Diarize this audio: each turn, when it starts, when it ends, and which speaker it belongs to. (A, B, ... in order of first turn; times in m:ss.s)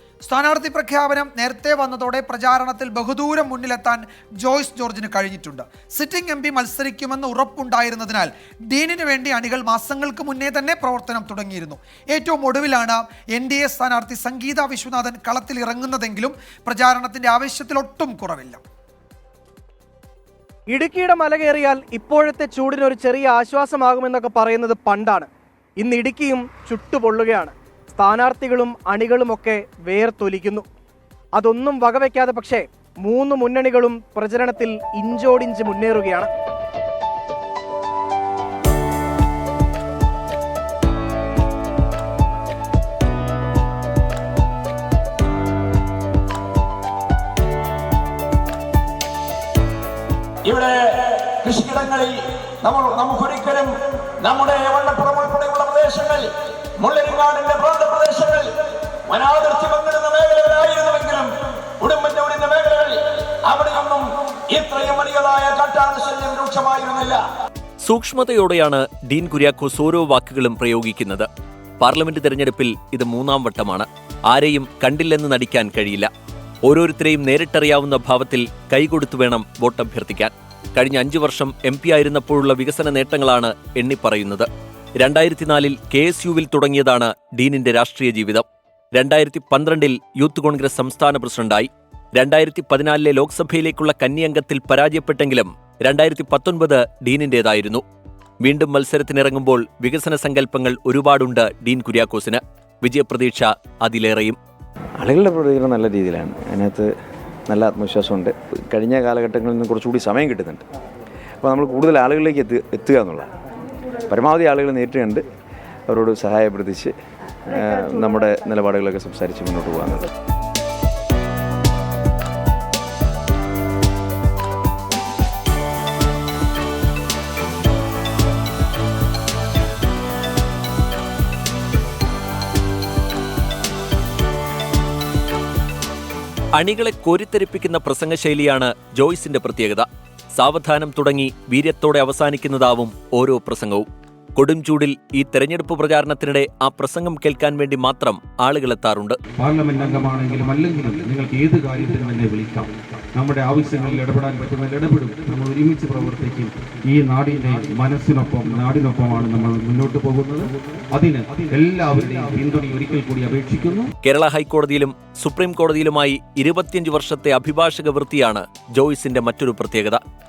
0:00.2-0:18.6 A
0:20.7-0:30.6 B
0:31.3-0:36.3 B
0:50.4-1:07.2 C
1:07.8-1:11.3 D
1:11.8-1:16.1 D
1:16.6-1:24.5 D
1:25.0-1:37.8 D
1:38.4-1:44.4 D
1:45.0-1:46.9 E
1:47.5-1:50.6 E
1:51.4-1:53.3 E
1:54.1-1:55.2 E
1:55.9-1:56.9 E
1:57.5-2:00.1 E
2:16.5-2:23.8 D
2:24.4-2:29.2 D
2:29.4-2:43.9 F
2:44.0-2:50.0 D